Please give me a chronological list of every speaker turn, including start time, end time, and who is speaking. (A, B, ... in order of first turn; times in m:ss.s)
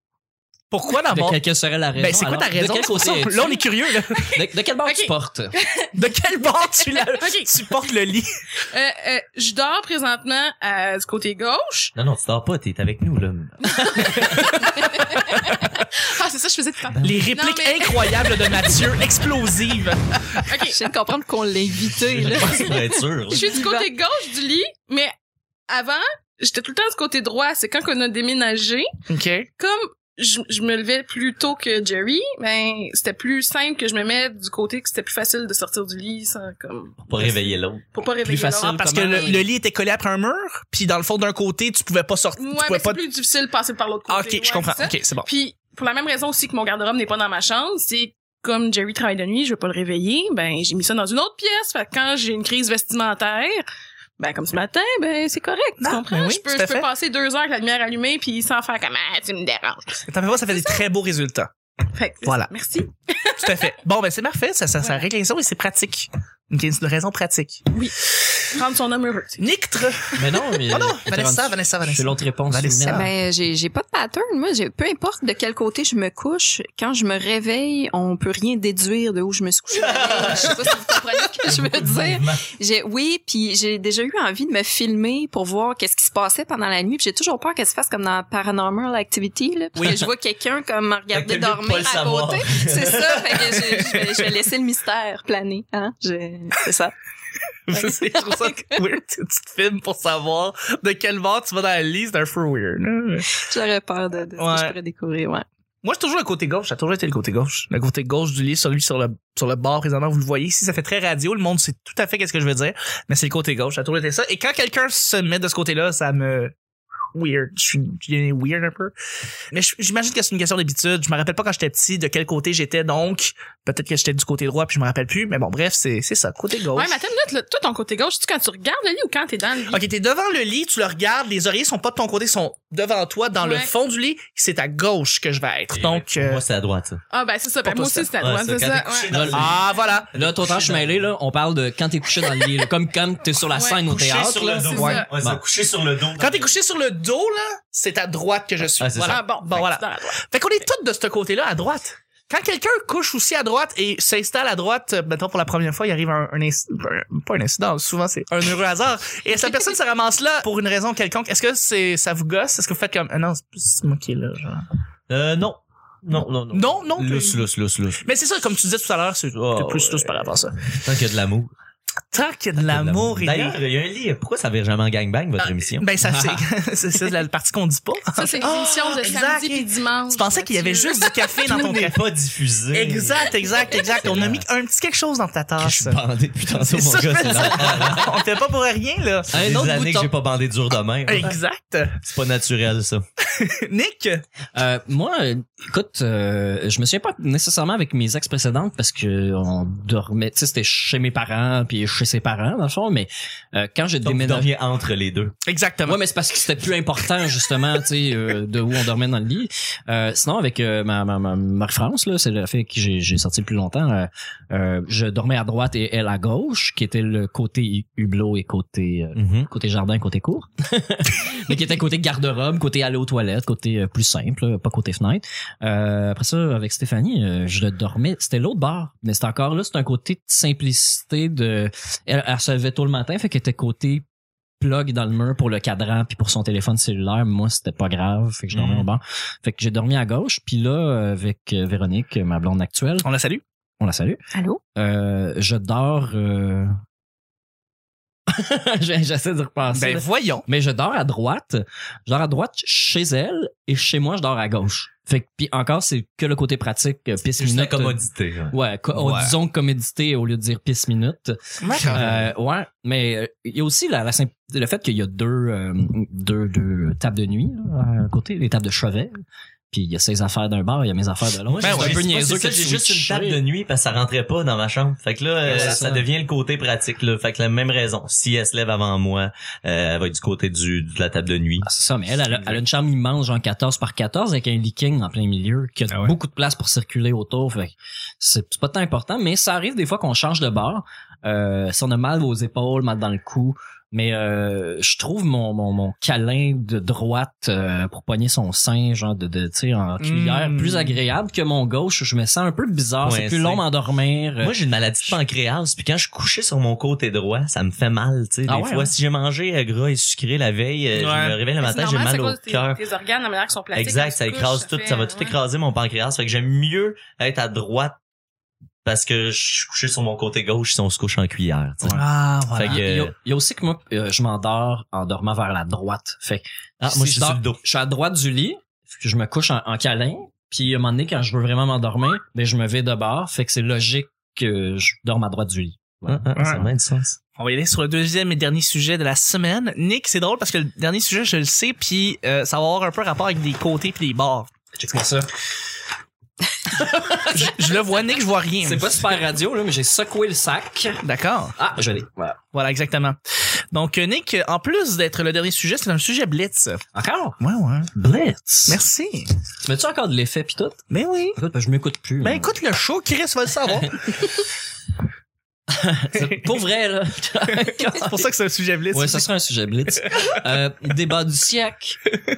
0:00.7-0:01.4 A
0:01.1-0:03.6 B
0:01.9-0:04.4 A
0:04.3-0:05.5 B
0:04.8-0:05.9 C
0:05.9-0:08.4 A
0:06.9-0:07.7 C
0:08.7-0:11.9 C
0:11.9-0:13.7 D
0:13.6-0:18.5 C
0:14.0-0:15.7 A
0:16.9-0:17.3 D
0:17.0-0:20.5 A
0:20.4-0:20.8 C
0:20.6-0:23.9 E
0:22.0-0:23.6 D
0:23.3-0:25.1 C
0:25.7-0:28.9 C
0:29.1-0:29.5 A
0:29.6-0:37.4 C
0:37.0-0:37.8 D
0:37.9-0:39.4 C
0:38.2-0:39.5 B
0:38.6-0:43.0 A
0:42.4-0:53.6 C
0:44.1-0:45.3 A
0:54.2-1:00.0 C
0:55.8-0:56.9 A
1:00.1-1:01.5 A
1:01.9-1:03.7 C
1:02.2-1:02.5 A
1:03.4-1:07.7 A
1:08.5-1:09.4 C
1:09.4-1:13.1 A
1:10.1-1:13.1 B
1:12.8-1:36.9 E
1:19.7-1:22.4 D
1:31.1-1:33.8 D
1:37.7-1:43.3 A
1:43.3-1:45.4 E
1:44.4-1:44.8 A
1:45.8-1:56.5 A
1:57.1-1:58.9 A
1:59.5-2:06.9 A
2:06.7-2:09.8 C
2:09.7-2:16.4 A
2:13.4-2:13.7 C
2:15.7-2:17.0 D
2:17.1-2:19.3 C
2:17.6-2:18.1 A
2:18.2-2:19.6 D
2:19.1-2:19.6 B
2:19.3-2:20.2 A
2:20.1-2:25.4 B
2:20.2-2:20.9 D
2:23.5-2:23.8 C
2:23.9-2:26.5 D
2:24.6-2:25.1 C
2:24.7-2:25.0 A
2:26.2-2:44.7 A
2:28.8-2:29.2 D
2:29.0-2:30.2 C
2:45.1-2:48.0 D
2:46.5-2:47.4 A
2:48.0-2:50.6 A
2:49.4-2:50.2 D
2:50.7-2:51.5 D
2:52.1-2:53.6 A
2:52.6-2:55.9 D
2:55.4-3:02.0 A
2:56.0-2:56.4 B
2:58.1-3:01.3 C
3:01.4-3:04.4 D
3:02.7-3:09.3 A
3:05.6-3:08.1 D
3:09.3-3:10.1 B
3:09.3-3:11.4 D
3:11.0-3:12.0 A
3:12.0-3:13.0 D
3:13.3-3:14.2 A
3:14.5-3:24.5 B
3:24.0-3:25.3 D
3:25.4-3:26.0 A
3:25.8-3:54.0 B
3:39.2-3:39.5 D
3:54.6-4:03.1 B
3:58.5-3:58.9 D
4:03.0-4:03.4 A
4:03.8-4:04.2 B
4:04.3-4:04.6 E
4:04.7-4:06.8 B
4:08.3-4:18.0 B
4:09.7-4:10.5 A
4:17.4-4:18.5 D
4:18.5-4:33.4 B
4:18.9-4:19.3 A
4:21.6-4:22.3 A
4:31.5-4:41.7 D
4:31.6-4:32.0 A
4:35.4-4:36.1 B
4:35.5-4:35.7 A
4:41.6-5:04.5 B
4:42.3-4:42.6 D
5:00.0-5:01.0 A
5:03.0-5:03.6 D
5:04.4-5:12.8 D
5:08.5-5:08.9 B
5:10.9-5:11.4 A
5:11.6-5:15.4 C
5:13.7-5:18.0 D
5:18.8-5:22.0 D
5:21.9-5:22.8 A
5:22.5-5:23.1 D
5:22.6-5:36.5 B
5:26.8-5:27.6 D
5:36.1-5:37.2 D
5:36.4-5:36.6 A
5:37.4-5:44.5 A
5:44.7-5:45.3 B
5:46.7-5:47.7 B
5:47.3-5:49.0 A
5:48.6-5:51.0 B
5:51.0-5:51.6 A
5:51.6-5:52.4 B
5:52.5-5:53.2 A
5:53.7-5:56.8 A
5:56.9-5:57.4 B
5:57.4-5:57.9 A
5:57.9-5:58.8 B
5:58.7-5:59.3 A
5:59.6-6:02.6 B
6:00.9-6:01.4 A
6:02.2-6:04.3 A
6:03.8-6:04.3 B
6:05.7-6:08.3 B
6:06.2-6:06.5 A
6:07.5-6:09.3 A
6:08.9-6:12.0 B
6:10.0-6:10.4 A